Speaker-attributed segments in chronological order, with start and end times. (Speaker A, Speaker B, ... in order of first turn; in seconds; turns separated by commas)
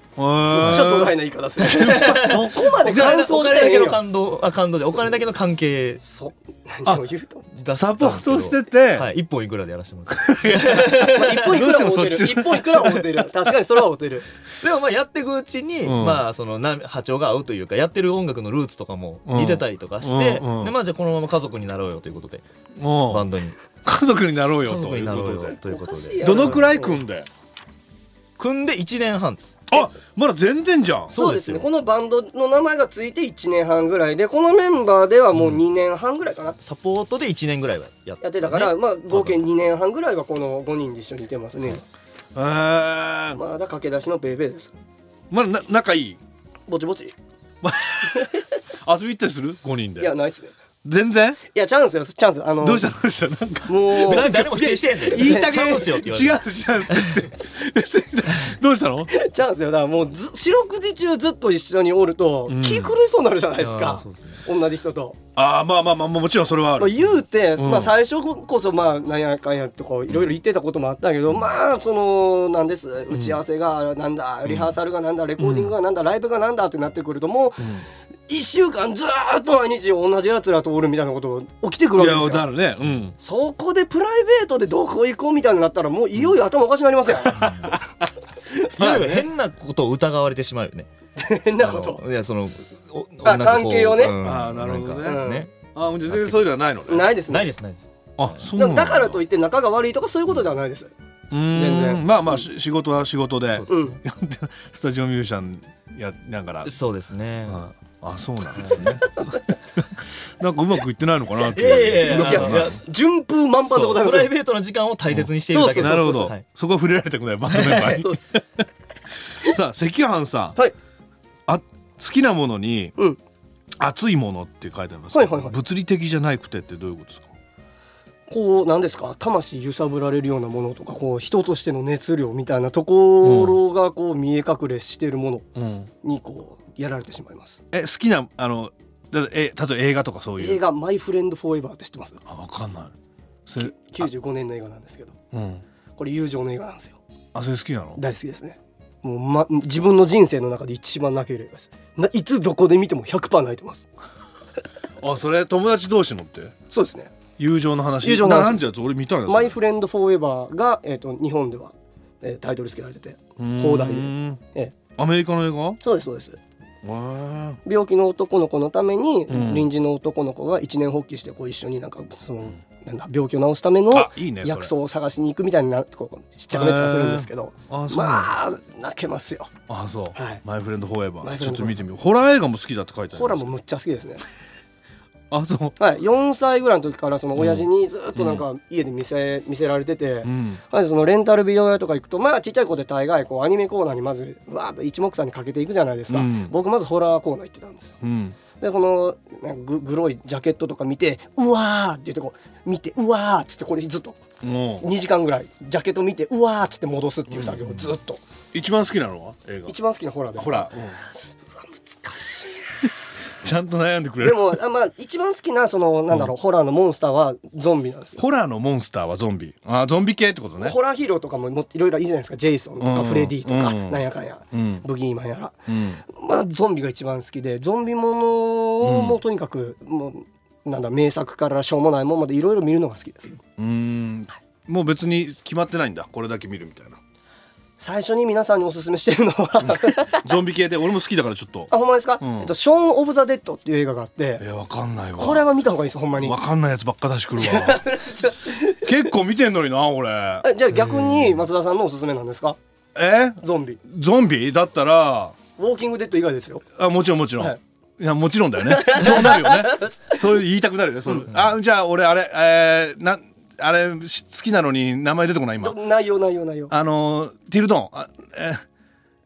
Speaker A: 0.2-2.6, Speaker B: 0.5-4.0, Speaker C: 0.6-0.9, Speaker C: 1.6-6.0, Speaker B: 6.0-7.5, Speaker C: 7.6-11.5, Speaker A: 7.7-9.1, Speaker A: 10.1-13.1, Speaker B: 11.0-14.2, Speaker C: 14.6-22.4, Speaker A: 15.8-16.2, Speaker A: 19.3-20.7, Speaker A: 22.8-23.3, Speaker C: 23.1-23.6, Speaker A: 23.9-25.6, Speaker C: 24.6-26.6, Speaker B: 25.6-27.0, Speaker A: 26.2-27.3, Speaker C: 28.4-29.6, Speaker A: 29.7-31.1, Speaker C: 31.1-31.6, Speaker B: 31.1-36.6, Speaker C: 36.6-39.4, Speaker B: 38.2-41.8, Speaker A: 42.4-43.4, Speaker B: 43.4-44.7, Speaker A: 45.3-46.2, Speaker B: 46.7-47.1, Speaker A: 47.6-50.1, Speaker B: 48.1-48.4, Speaker B: 50.0-50.5, Speaker A: 50.8-51.4, Speaker B: 51.5-52.9, Speaker A: 52.6-59.1, Speaker B: 53.6-55.8, Speaker C: 53.9-57.2, Speaker B: 59.1-65.2, Speaker A: 62.5-62.9, Speaker C: 63.6-64.4, Speaker A: 65.4-67.9, Speaker B: 66.8-82.5, Speaker A: 73.1-73.4, Speaker A: 74.5-74.7, Speaker A: 75.4-75.7, Speaker A: 82.0-83.1, Speaker B: 83.2-87.5, Speaker A: 87.3-88.0, Speaker C: 87.3-87.8, Speaker A: 88.8-89.3, Speaker C: 88.8-90.9, Speaker B: 91.2-92.0, Speaker C: 91.6-96.5, Speaker B: 93.2-94.2, Speaker A: 94.2-97.1, Speaker B: 95.0-95.5, Speaker B: 96.9-97.5, Speaker C: 97.3-98.5, Speaker A: 98.2-99.2, Speaker B: 98.5-100.9, Speaker A: 101.3-106.7, Speaker B: 101.5-102.4, Speaker C: 103.5-103.9, Speaker B: 103.7-104.0, Speaker C: 106.6-107.6, Speaker A: 107.5-112.8, Speaker C: 108.6-108.9, Speaker C: 111.5-112.8, Speaker B: 112.0-114.3, Speaker C: 113.6-116.4, Speaker A: 115.1-118.4, Speaker B: 115.5-116.3, Speaker C: 117.5-118.1, Speaker A: 119.4-120.6, Speaker A: 121.5-123.0, Speaker A: 123.8-127.3, Speaker B: 125.1-125.5, Speaker B: 128.3-135.5, Speaker A: 133.2-133.6, Speaker A: 135.6-135.9, Speaker B: 136.0-137.6, Speaker A: 137.7-140.6, Speaker B: 140.4-142.2, Speaker A: 142.2-142.9, Speaker A: 143.5-144.1, Speaker B: 143.6-145.1, Speaker A: 145.3-145.6, Speaker B: 146.0-147.0, Speaker A: 147.3-148.0, Speaker B: 148.0-153.9, Speaker A: 155.0-156.5, Speaker B: 156.7-157.1, Speaker A: 157.4-159.6, Speaker B: 158.0-158.6, Speaker B: 159.2-164.7, Speaker A: 163.4-164.4, Speaker A: 165.0-165.8, Speaker B: 165.8-166.4, Speaker A: 166.8-167.6, Speaker B: 167.6-179.5, Speaker A: 169.3-169.7, Speaker A: 173.9-174.7, Speaker A: 176.5-178.3, Speaker A: 179.7-183.6, Speaker B: 180.1-180.4, Speaker B: 181.2-181.8, Speaker B: 183.1-184.2, Speaker A: 185.3-185.8, Speaker B: 185.8-198.0, Speaker A: 187.4-187.7, Speaker A: 190.2-190.6, Speaker A: 196.1-196.5, Speaker A: 198.0-198.4, Speaker B: 198.6-204.2, Speaker A: 204.4-204.9, Speaker B: 204.8-208.2, Speaker A: 207.3-207.9, Speaker A: 208.5-209.8, Speaker B: 209.7-210.8, Speaker A: 210.3-211.0, Speaker B: 211.6-212.6, Speaker A: 213.4-214.6, Speaker B: 214.2-218.2, Speaker A: 218.2-220.8, Speaker B: 220.6-233.4, Speaker A: 222.8-224.8, Speaker A: 225.7-226.0, Speaker A: 228.8-229.2, Speaker A: 233.6-237.0, Speaker B: 237.8-240.2, Speaker A: 239.6-242.5, Speaker B: 241.7-244.4, Speaker A: 244.4-245.4, Speaker B: 245.2-246.4, Speaker A: 246.2-247.8, Speaker B: 247.4-248.9, Speaker A: 248.8-250.4, Speaker B: 250.4-252.6, Speaker A: 252.9-255.4, Speaker B: 253.4-253.8, Speaker B: 255.6-256.6, Speaker A: 256.8-265.8, Speaker B: 258.6-260.2, Speaker B: 265.6-266.7, Speaker A: 266.7-268.6